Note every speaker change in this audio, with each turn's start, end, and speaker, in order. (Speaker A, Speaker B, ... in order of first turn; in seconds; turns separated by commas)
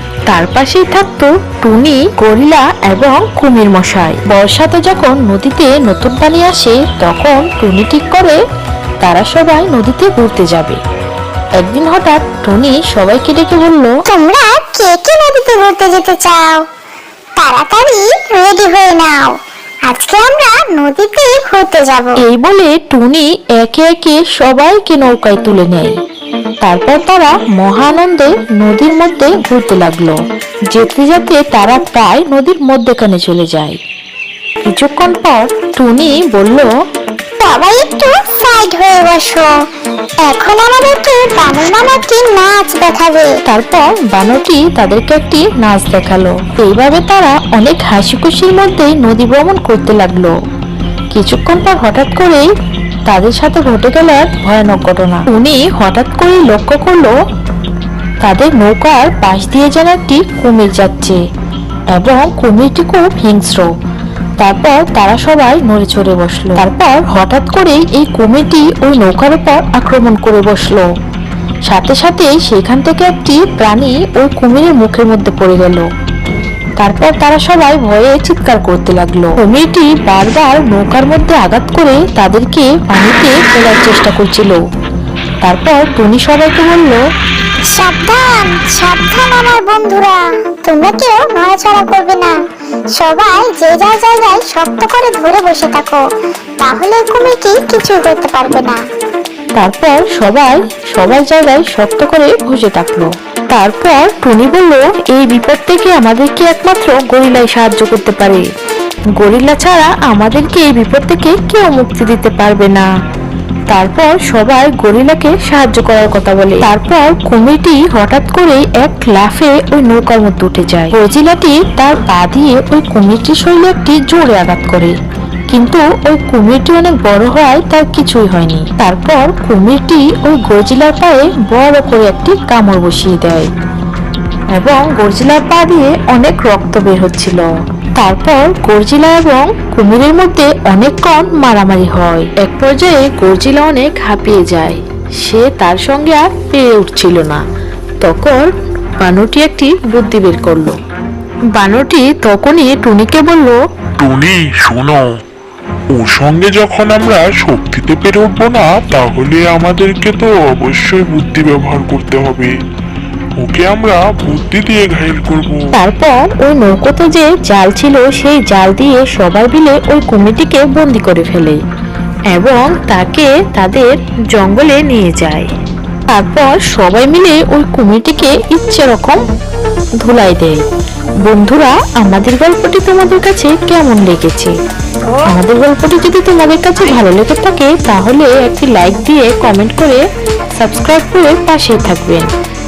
Speaker A: 0.3-8.4, Speaker A: 9.0-10.8, Speaker A: 11.6-14.0, Speaker B: 14.1-16.6, Speaker B: 17.4-22.2, Speaker A: 22.2-26.0, Speaker A: 26.6-30.2, Speaker A: 30.7-33.8, Speaker A: 34.6-36.7, Speaker B: 37.4-39.5, Speaker B: 40.2-43.3, Speaker A: 43.5-50.3, Speaker A: 51.1-52.5, Speaker A: 53.1-57.1, Speaker A: 58.2-61.2, Speaker A: 61.9-63.7, Speaker A: 64.4-70.9, Speaker A: 71.7-75.9, Speaker A: 76.8-84.6, Speaker A: 85.4-87.0, Speaker B: 87.7-92.4, Speaker B: 92.9-96.0, Speaker B: 96.6-98.8, Speaker A: 99.6-108.5, Speaker A: 109.2-112.9, Speaker A: 113.7-125.0, Speaker A: 125.5-133.5, Speaker A: 134.6-137.4, Speaker A: 138.0-147.4, Speaker A: 148.0-148.5, Speaker A: 149.0-150.8, Speaker A: 151.6-153.6, Speaker C: 154.0-155.1, Speaker C: 155.9-162.5, Speaker C: 163.4-165.6, Speaker A: 165.7-171.6, Speaker A: 172.3-175.5, Speaker A: 176.1-179.2, Speaker A: 180.0-180.6, Speaker A: 181.2-184.5, Speaker B: 185.1-185.3, Speaker A: 185.3-190.0, Speaker A: 190.6-192.3